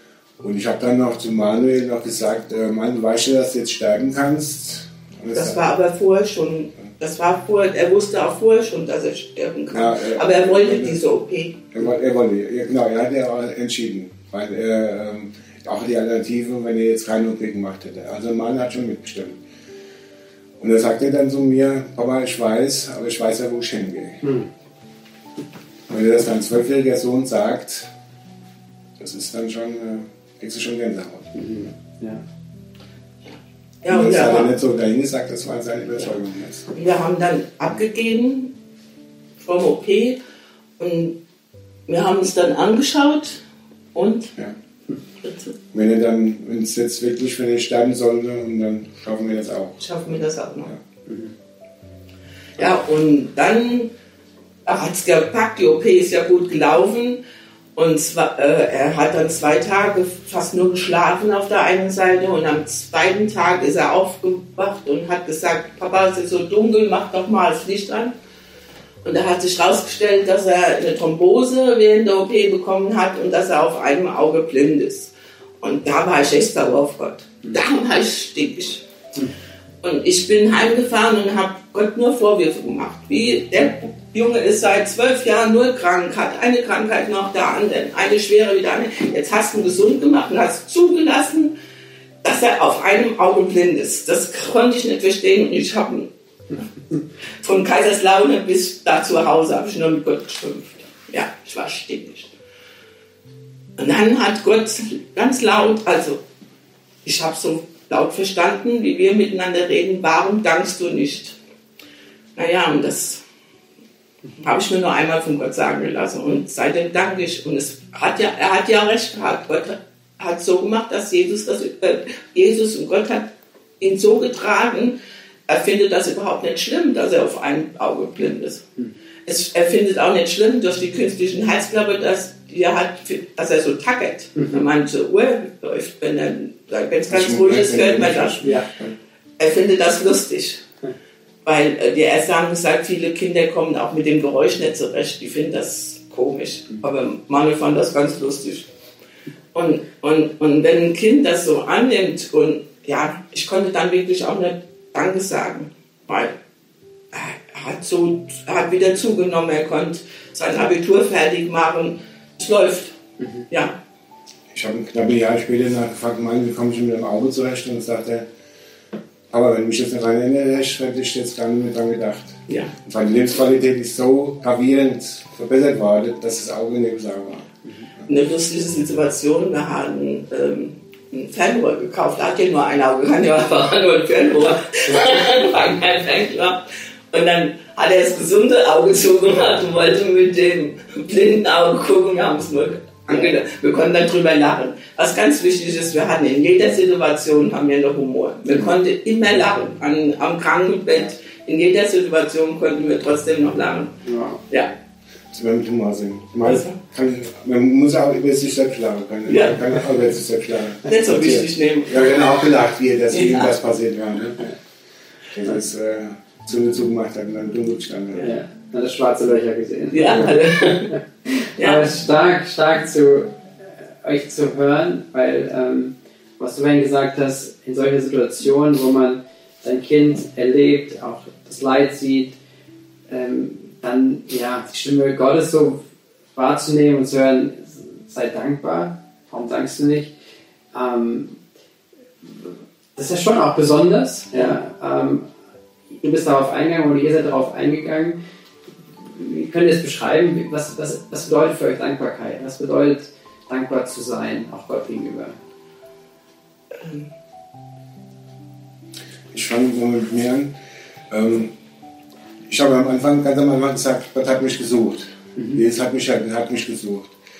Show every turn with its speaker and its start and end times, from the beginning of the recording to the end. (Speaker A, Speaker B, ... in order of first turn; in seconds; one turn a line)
Speaker A: 0.4-5.6
Speaker B: 5.3-11.7
Speaker A: 9.7-11.0
Speaker A: 11.7-19.4
Speaker A: 20.6-24.2
Speaker C: 24.2-24.5
Speaker A: 25.9-27.9
Speaker A: 29.0-31.4
Speaker C: 31.3-32.2
Speaker B: 33.3-34.5
Speaker A: 33.9-36.7
Speaker B: 36.7-38.5
Speaker B: 39.4-40.2
Speaker B: 40.8-41.2
Speaker B: 41.9-43.4
Speaker B: 43.9-44.3
Speaker B: 45.2-45.5
Speaker A: 45.7-50.8
Speaker B: 49.8-50.7
Speaker C: 51.1-51.3
Speaker B: 52.6-53.9
Speaker B: 54.7-57.2
Speaker B: 57.8-68.1
Speaker B: 69.0-78.8
Speaker B: 79.8-91.5
Speaker B: 92.2-96.1
Speaker B: 97.4-102.3
Speaker B: 103.8-106.2
Speaker B: 107.0-111.4
Speaker B: 112.4-113.2
Speaker B: 114.4-123.3
Speaker B: 123.8-128.7
Speaker B: 129.3-138.5
Speaker C: 134.4-134.6
Speaker A: 137.1-139.0
Speaker B: 139.4-140.6
Speaker B: 141.4-148.7
Speaker B: 149.5-156.3
Speaker B: 157.1-163.0
Speaker B: 163.5-163.8
Speaker A: 164.5-168.3
Speaker A: 169.3-178.1
Speaker B: 172.5-172.7
Speaker B: 178.1-204.7
Speaker C: 204.1-204.4
Speaker A: 205.3-214.5
Speaker B: 206.4-206.8
Speaker B: 209.3-209.7
Speaker B: 210.8-212.2
Speaker B: 213.1-213.5
Speaker A: 215.3-218.3
Speaker C: 218.2-232.3
Speaker B: 219.9-220.9
Speaker B: 221.6-221.9
Speaker C: 233.1-235.8
Speaker C: 236.3-240.1
Speaker C: 240.7-241.4
Speaker C: 242.2-245.3
Speaker C: 246.0-248.2
Speaker C: 249.1-255.4
Speaker B: 256.8-257.1
Speaker A: 259.3-260.6
Speaker A: 261.1-261.5
Speaker A: 262.5-267.2
Speaker C: 265.4-265.6